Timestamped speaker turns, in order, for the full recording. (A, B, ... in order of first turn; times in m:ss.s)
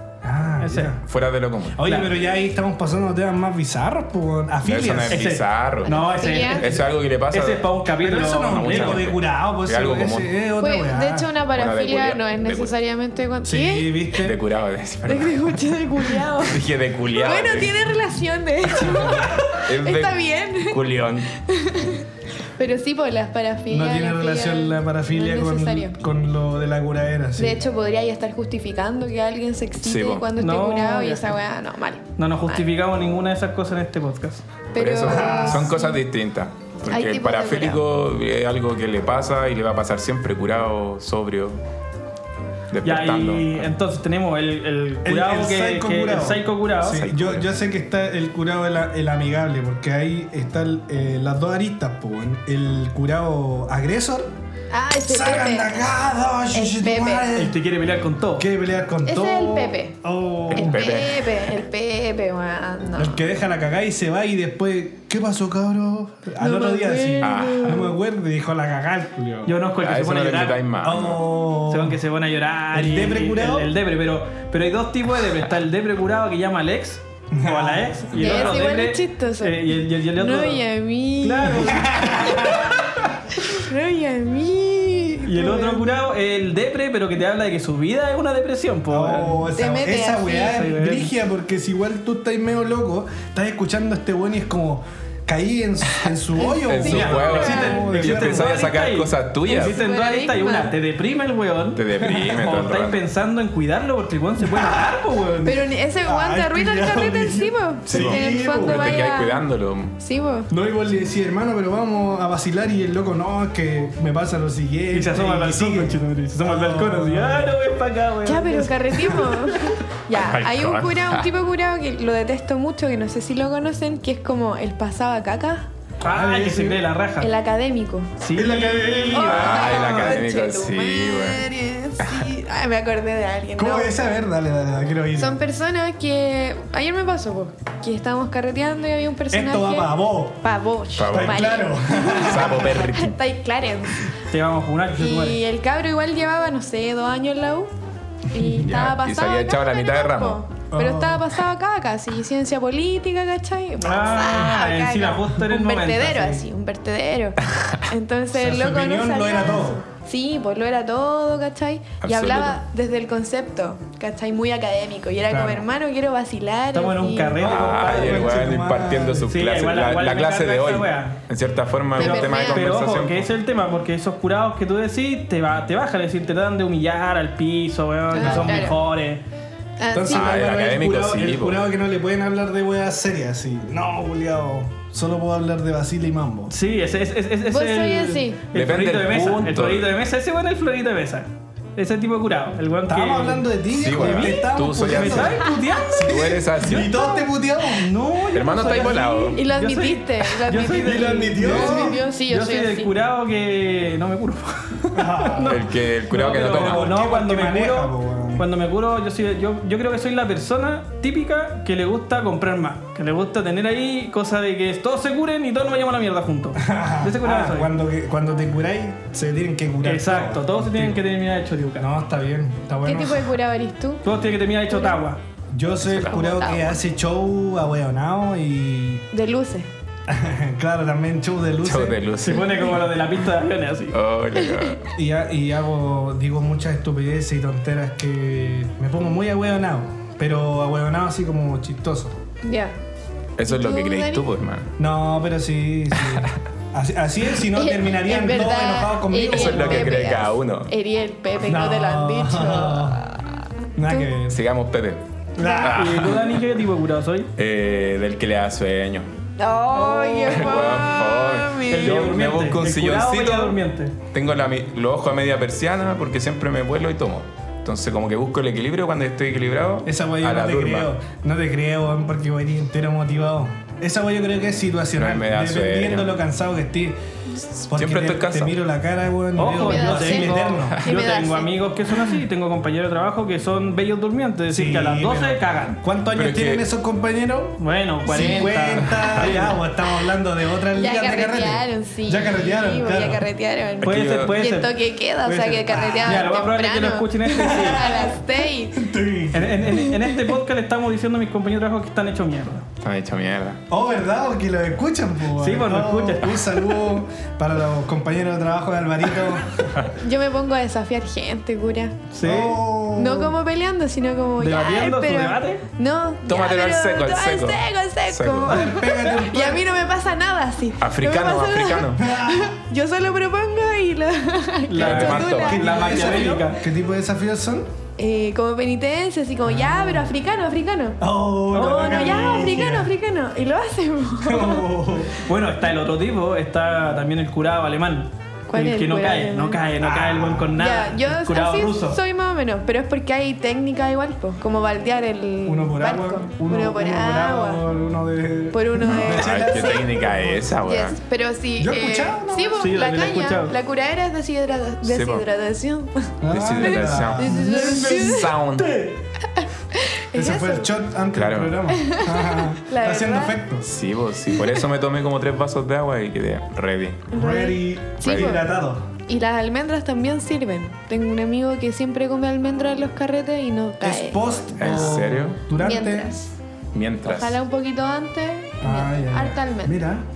0:00.2-0:01.0 A
0:00.6-0:00.9 B
0:01.0-0:01.9 C
0:01.7-0:05.3 A
0:01.8-0:02.1 B
0:04.6-0:10.3 C
0:05.1-0:09.1 B
0:05.8-0:06.7 D
0:08.0-0:11.3 A
0:10.6-0:14.0 D
0:11.6-0:12.7 C
0:13.4-0:14.4 A
0:14.2-0:15.6 C
0:15.0-0:16.6 D
0:16.4-0:17.9 C
0:17.2-0:20.8 D
0:18.8-0:19.4 A
0:19.6-0:21.3 C
0:21.4-0:26.0 D
0:23.7-0:27.6 A
0:27.4-0:32.6 D
0:29.8-0:30.2 C
0:30.4-0:31.4 B
0:32.2-0:34.4 B
0:34.7-0:35.9 D
0:34.8-0:41.6 C
0:35.0-0:35.8 A
0:36.9-0:37.8 D
0:42.7-0:43.7 C
0:42.8-0:47.0 B
0:45.0-0:54.3 A
0:46.9-0:47.5 C
0:54.7-0:55.7 D
0:55.0-0:57.6 A
0:56.5-0:57.3 D
0:57.3-0:58.5 B
0:58.4-1:00.8 A
0:59.0-1:00.0 D
1:00.5-1:01.3 C
1:00.5-1:03.2 D
1:03.0-1:09.6 A
1:06.4-1:08.0 D
1:07.2-1:07.9 C
1:09.4-1:10.6 B
1:09.8-1:11.2 C
1:10.8-1:12.0 A
1:11.6-1:20.6 B
1:12.7-1:13.7 A
1:17.3-1:18.4 A
1:18.1-1:22.1 D
1:21.2-1:22.8 B
1:21.6-1:23.0 A
1:23.3-1:25.8 D
1:25.2-1:29.4 B
1:28.9-1:38.6 A
1:29.6-1:30.7 D
1:30.4-1:31.1 B
1:36.3-1:37.8 D
1:36.6-1:39.8 C
1:36.8-1:45.4 B
1:39.5-1:40.7 D
1:41.8-1:43.0 C
1:42.0-1:42.6 A
1:44.4-1:49.0 A
1:45.4-1:49.4 D
1:47.9-1:50.0 C
1:50.0-1:50.5 D
1:50.5-1:57.6 A
1:54.9-1:59.3 B
1:58.2-2:05.7 D
2:00.1-2:01.3 C
2:06.0-2:07.3 B
2:06.0-2:06.8 A
2:07.2-2:08.2 D
2:08.2-2:09.0 B
2:08.3-2:10.0 A
2:09.0-2:13.9 D
2:09.2-2:11.4 C
2:12.0-2:12.3 C
2:13.6-2:15.4 A
2:15.2-2:24.1 D
2:19.3-2:20.4 A
2:20.9-2:21.6 C
2:21.0-2:22.8 A
2:22.1-2:23.2 C
2:24.3-2:25.4 B
2:25.0-2:27.7 D
2:28.3-2:47.5 D
2:28.3-2:28.8 A
2:28.5-2:30.4 C
2:30.7-2:31.2 A
2:33.8-2:36.4 B
2:38.3-2:39.8 A
2:42.0-2:42.6 C
2:45.3-2:45.6 A
2:46.7-2:48.6 B
2:47.4-2:53.3 C
2:47.4-2:49.3 A
2:49.3-2:51.2 B
2:51.9-2:52.7 D
2:52.0-2:59.2 B
2:58.1-2:58.8 D
2:58.2-2:58.7 A
2:59.8-3:00.4 D
2:59.9-3:06.5 A
3:00.1-3:01.6 C
3:06.5-3:17.0 B
3:07.5-3:08.4 D
3:08.5-3:09.8 C
3:12.8-3:17.9 A
3:13.7-3:15.5 C
3:16.0-3:17.0 C
3:16.8-3:17.2 D
3:17.6-3:37.7 B
3:18.3-3:19.4 C
3:19.3-3:22.9 D
3:20.7-3:22.0 A
3:24.9-3:28.5 A
3:25.4-3:26.9 C
3:36.6-3:41.0 A
3:39.8-3:41.9 B
3:41.8-3:43.3 A
3:42.8-3:44.0 D
3:44.0-3:45.2 B
3:44.7-3:45.0 D
3:45.5-3:49.0 A
3:45.8-3:46.2 C
3:46.0-3:46.8 D
3:49.1-3:49.7 D
3:50.1-3:52.0 A
3:51.6-3:53.0 C
3:52.2-3:54.0 B
3:53.9-3:54.9 C
3:54.4-3:54.8 D
3:54.9-4:02.2 A
4:02.4-4:02.7 D
4:03.4-4:04.7 C
4:03.4-4:04.3 D
4:04.8-4:10.0 A
4:06.0-4:06.3 C
4:07.5-4:14.1 D
4:09.3-4:10.7 C
4:11.4-4:13.0 A
4:13.8-4:14.4 A
4:14.3-4:16.4 C
4:15.4-4:15.8 D
4:15.5-4:17.3 B
4:17.4-4:19.1 C
4:19.4-4:22.2 D
4:19.8-4:20.4 B
4:20.2-4:23.6 C
4:21.7-4:23.9 B
4:24.1-4:30.9 C
4:29.8-4:37.0 A
4:35.0-4:36.2 C
4:37.4-4:38.5 C
4:37.7-4:40.8 A
4:39.4-4:45.8 B
4:39.5-4:41.5 D
4:44.5-4:53.3 A
4:46.1-4:46.6 C
4:47.6-4:49.6 B
4:48.1-4:49.1 D
4:50.7-4:58.9 D
4:53.8-4:54.4 C
4:53.8-4:54.8 B
4:55.2-4:56.3 A
4:56.0-4:58.0 B
4:57.3-4:58.2 A
4:58.7-4:59.9 A
4:59.3-5:02.6 B
5:02.8-5:03.6 C
5:03.7-5:09.7 A
5:05.4-5:06.4 B
5:10.0-5:12.0 D
5:12.1-5:12.6 B
5:12.2-5:13.3 A
5:12.9-5:25.8 D
5:14.4-5:15.6 B
5:16.2-5:18.7 C
5:18.4-5:19.6 A
5:20.8-5:22.0 C
5:22.0-5:22.5 A
5:24.7-5:26.6 B
5:24.8-5:26.0 C
5:24.8-5:27.7 A
5:28.0-5:34.7 D
5:29.4-5:30.1 A
5:31.0-5:32.9 A
5:34.2-5:35.2 A
5:35.2-5:42.0 B
5:38.5-5:39.6 D
5:39.8-5:40.6 A
5:40.6-5:47.6 D
5:45.4-5:50.5 A
5:48.5-5:49.9 D
5:48.8-5:51.0 C
5:50.6-5:58.3 D
5:51.6-5:52.6 A
5:52.6-5:53.5 B
5:54.8-5:55.2 C
5:56.2-5:59.0 A
5:56.3-5:58.7 C
5:59.3-6:00.7 D
6:00.1-6:03.7 A
6:01.1-6:01.6 C
6:01.7-6:03.4 D
6:03.6-6:07.1 C
6:07.1-6:08.4 D
6:07.1-6:08.9 A
6:08.0-6:08.4 C
6:09.1-6:15.0 D
6:13.8-6:16.1 A
6:14.6-6:15.4 C
6:15.6-6:16.4 D
6:16.7-6:17.4 C
6:17.0-6:19.9 D
6:18.6-6:20.0 A